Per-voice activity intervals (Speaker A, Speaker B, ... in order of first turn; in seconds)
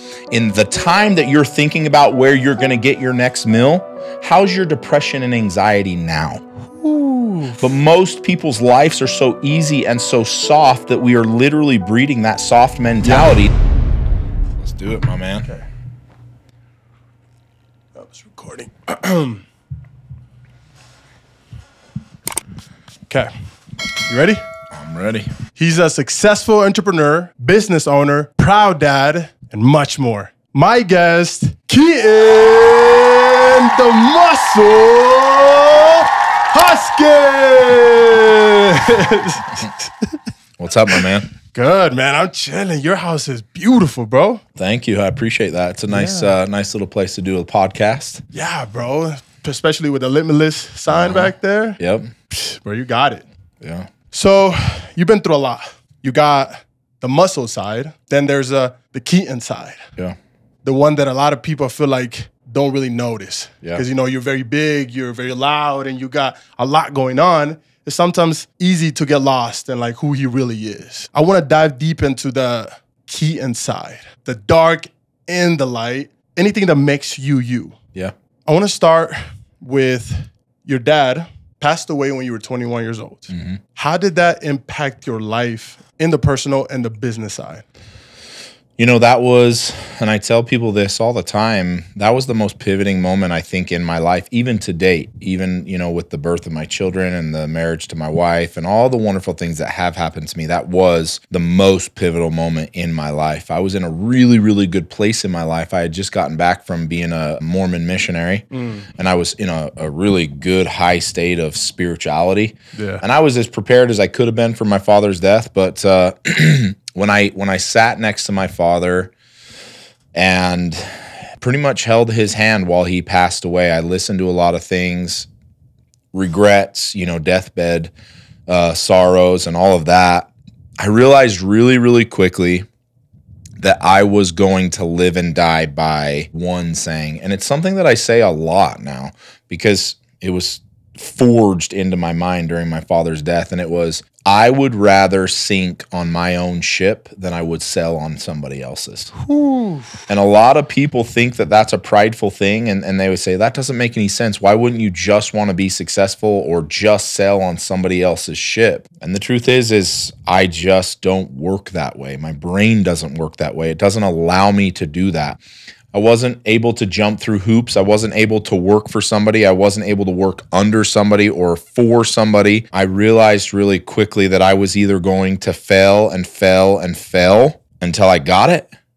Speaker A: 0.3-6.4, 7.6-13.5, 14.6-15.5, 24.7-25.3, 40.6-41.3, 44.5-48.2, 50.9-52.1, 53.6-53.9, 83.3-83.6, 88.8-108.5, 109.0-119.1, 120.1-125.3, 126.1-127.9, 128.5-132.7, 133.6-149.1, 150.1-165.4, 165.9-178.7
Speaker B: 6.7-7.6, 13.0-13.4, 17.9-19.4, 24.1-24.4, 25.6-40.2, 40.9-44.4, 45.9-46.3, 48.3-51.8, 52.3-53.2, 54.1-59.8, 60.6-77.8, 78.5-87.6, 108.5-108.9, 112.7-113.0, 149.2-150.0